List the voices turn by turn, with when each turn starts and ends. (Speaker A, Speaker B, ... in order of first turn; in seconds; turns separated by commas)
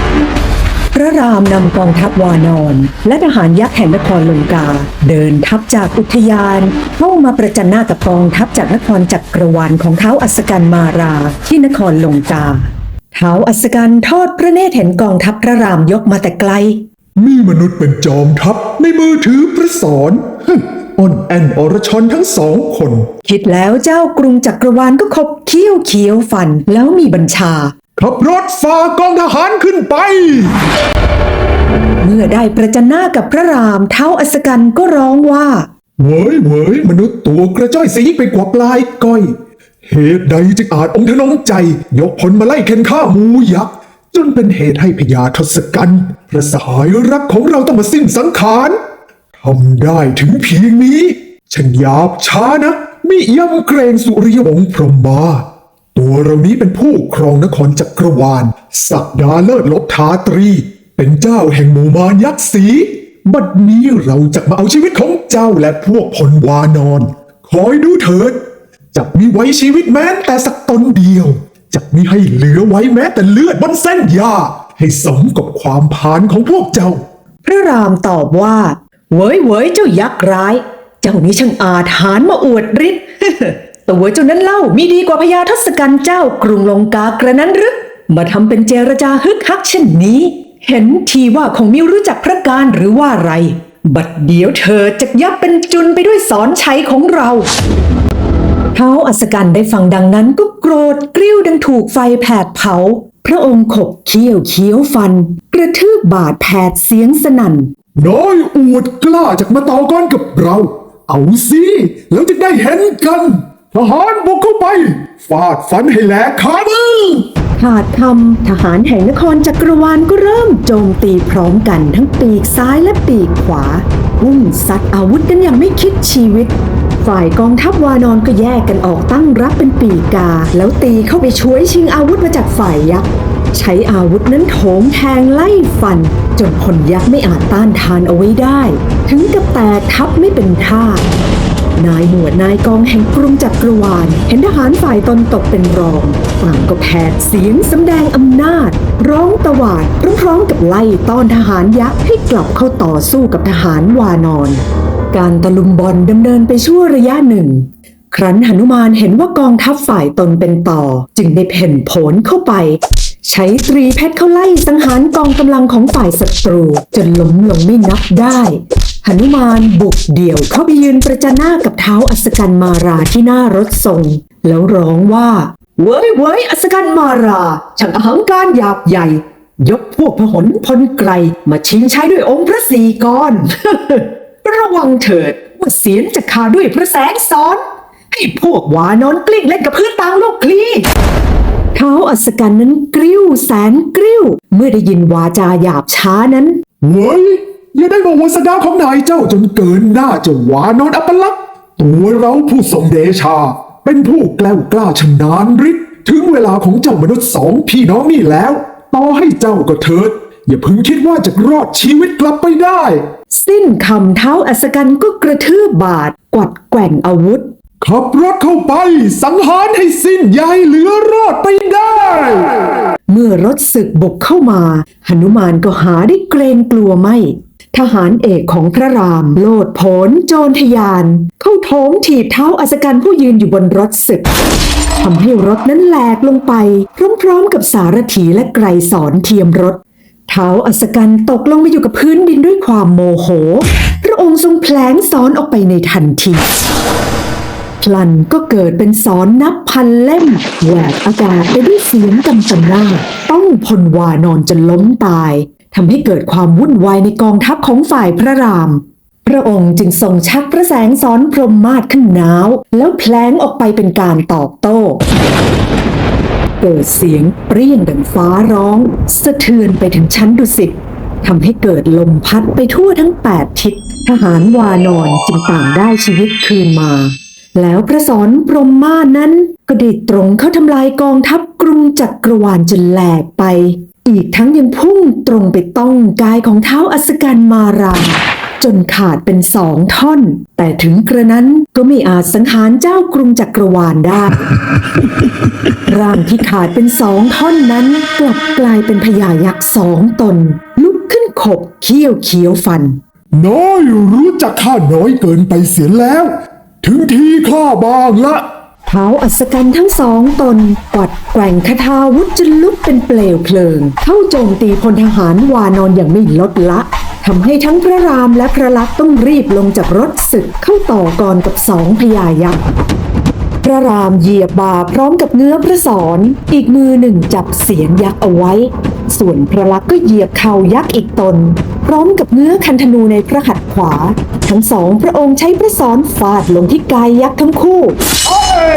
Speaker A: 0.9-16.9, Speaker B: 17.2-23.1, Speaker A: 23.2-27.7, Speaker B: 28.0-30.6, Speaker A: 32.0-35.7, Speaker B: 36.0-39.3, Speaker B: 39.9-48.8, Speaker B: 49.4-68.4, Speaker B: 68.9-77.0, Speaker A: 77.4-97.5, Speaker A: 98.7-107.7, Speaker B: 108.0-117.3, Speaker A: 117.6-141.1, Speaker A: 141.8-154.6, Speaker A: 155.1-190.9, Speaker A: 191.8-196.6, Speaker B: 196.8-213.1, Speaker A: 213.3-217.5, Speaker B: 217.8-222.6, Speaker A: 223.1-234.3, Speaker A: 235.0-246.5, Speaker A: 247.8-265.0, Speaker A: 266.6-294.5, Speaker A: 295.9-303.0, Speaker B: 303.3-308.5, Speaker A: 308.9-322.6, Speaker A: 323.6-338.1